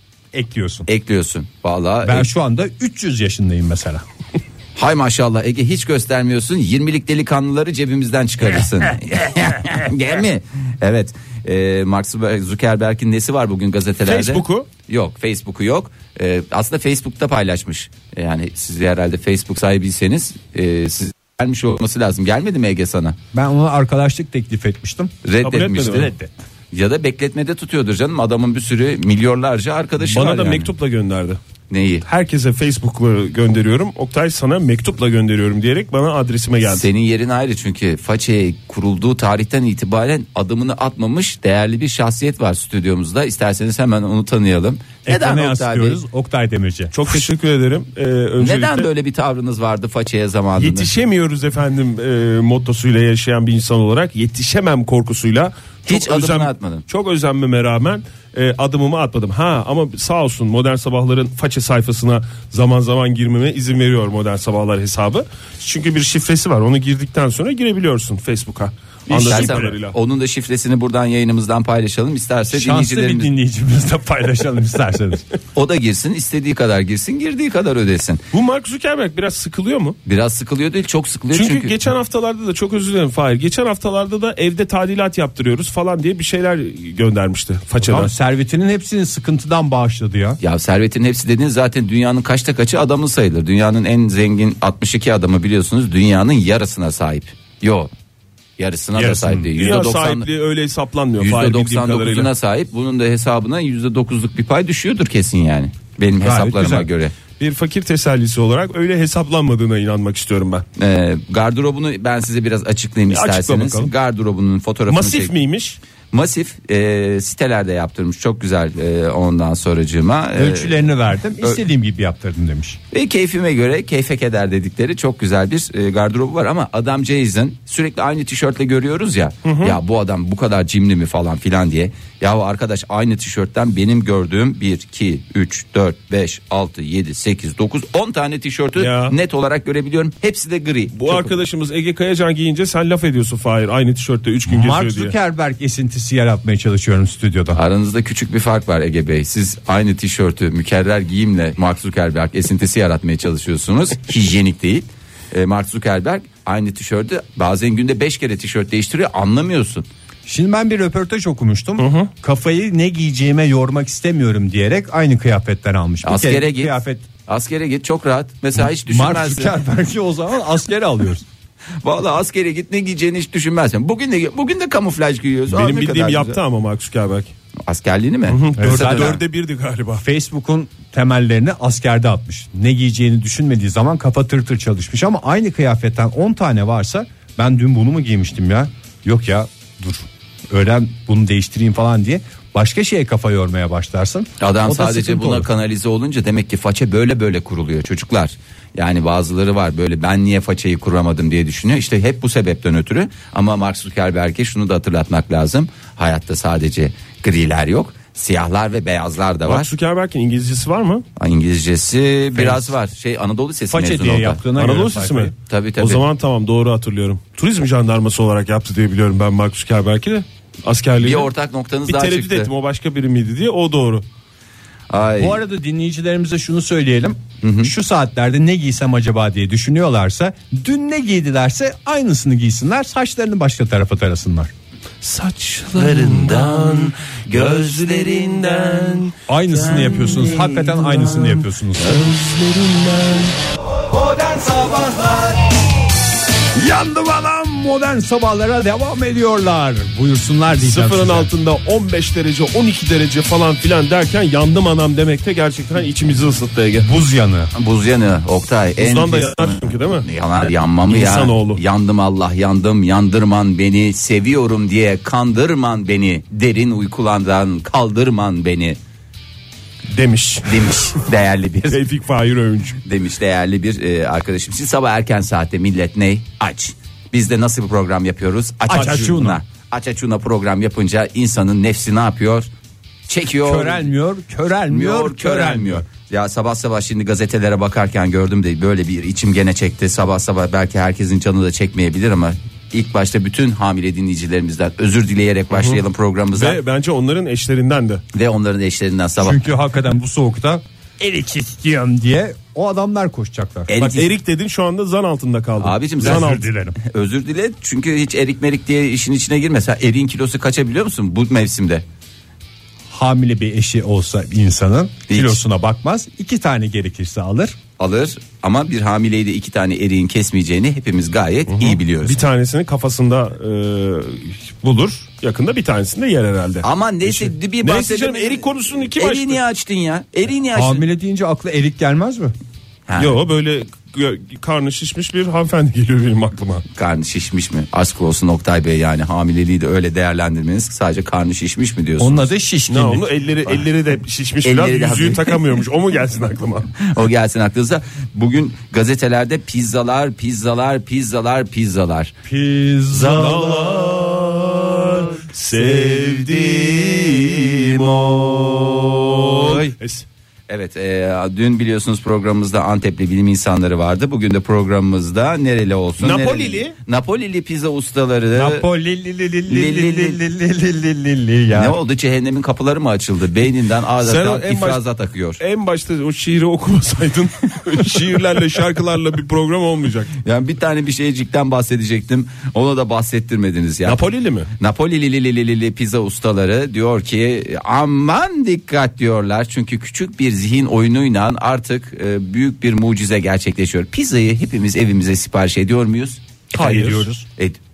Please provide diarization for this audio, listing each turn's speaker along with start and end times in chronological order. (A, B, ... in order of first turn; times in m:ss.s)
0:00.3-0:00.9 A
0:00.9-0:02.3 B
0:02.0-0:04.0 A
0:04.8-0:23.2 B
0:14.0-0:14.7 C
0:23.3-0:25.1 A
0:25.2-0:26.1 B
0:25.4-0:26.1 C
0:26.0-0:26.3 A
0:26.7-0:30.7 B
0:30.0-0:31.4 C
0:31.7-0:32.0 B
0:32.0-0:36.9 C
0:36.6-0:46.0 B
0:45.0-0:46.9 A
0:46.9-0:48.9 C
0:48.4-0:50.9 B
0:50.6-1:10.0 C
0:55.9-0:56.8 B
1:09.1-1:13.3 B
1:09.3-1:09.6 A
1:12.5-1:15.2 A
1:15.5-1:18.2 B
1:18.3-1:20.0 C
1:20.0-1:21.8 B
1:21.3-1:28.1 C
1:27.8-1:30.4 A
1:30.4-1:37.9 B
1:38.6-1:40.3 B
1:38.9-1:39.5 A
1:39.6-1:42.3 C
1:41.2-1:47.1 B
1:46.2-1:46.9 A
1:47.4-1:50.6 C
1:50.8-1:55.3 B
1:53.1-1:53.9 C
1:54.9-1:55.8 C
1:56.1-2:00.8 B
2:00.3-2:02.8 A
2:02.9-2:21.3 B
2:09.4-2:09.8 C
2:18.8-2:19.1 C
2:20.9-2:25.1 C
2:24.5-2:27.6 A
2:27.5-2:39.9 B
2:40.2-2:47.0 A
2:41.8-2:42.1 C
2:46.0-2:49.6 B
2:48.6-2:51.2 A
2:51.8-2:56.4 B
2:55.5-2:57.3 C
2:57.7-2:59.2 B
2:58.3-3:00.0 C
2:58.6-2:59.2 A
3:00.0-3:15.5 A
3:14.4-3:29.7 B
3:29.4-3:31.0 C
3:31.2-3:34.4 B
3:33.7-3:35.3 A
3:34.6-3:41.3 C
3:35.5-3:36.0 B
3:41.0-3:42.5 B
3:41.9-3:44.0 C
3:44.9-3:45.4 B
3:45.2-3:54.5 A
3:47.4-3:47.7 B
3:55.0-3:58.3 C
3:55.7-3:59.1 B
3:59.3-4:02.0 A
4:00.1-4:00.4 C
4:01.8-4:03.1 C
4:04.0-4:05.1 A
4:06.5-4:11.3 A
4:10.6-4:16.9 C
4:16.8-4:17.5 A
4:17.5-4:28.8 B
4:18.8-4:21.6 C
4:29.9-4:31.0 C
4:30.4-4:31.8 B
4:31.7-4:32.8 C
4:32.8-4:42.5 B
4:38.7-4:39.4 A
4:43.1-4:43.9 B
4:43.4-4:45.8 A
4:44.7-4:56.6 B
4:55.5-4:55.8 C
4:56.3-4:58.0 C
4:58.1-4:59.4 B
4:59.2-5:03.9 A
5:03.7-5:04.1 B
5:03.8-5:06.5 C
5:05.6-5:11.8 B
5:06.0-5:06.8 A
5:12.9-5:17.6 A
5:15.1-5:15.4 B
5:17.8-5:22.2 B
5:21.5-5:29.4 C
5:26.6-5:30.8 B
5:30.5-5:32.3 A
5:32.9-5:33.2 B
5:33.0-5:36.6 C
5:36.8-5:42.3 B
5:42.0-5:43.1 A
5:42.7-5:46.7 C
5:44.4-5:45.4 B
5:46.8-5:52.1 B
5:52.2-5:56.1 A
5:52.9-6:00.0 C
6:00.5-6:08.6 B
6:06.0-6:06.7 C
6:08.3-6:11.8 A
6:09.5-6:10.2 B
6:11.5-6:15.4 B
6:14.0-6:14.8 C
6:15.4-6:20.1 C
6:20.2-6:24.0 B
6:23.8-6:24.5 C
6:24.6-6:36.2 B
6:36.5-6:37.2 A
6:36.5-6:37.1 C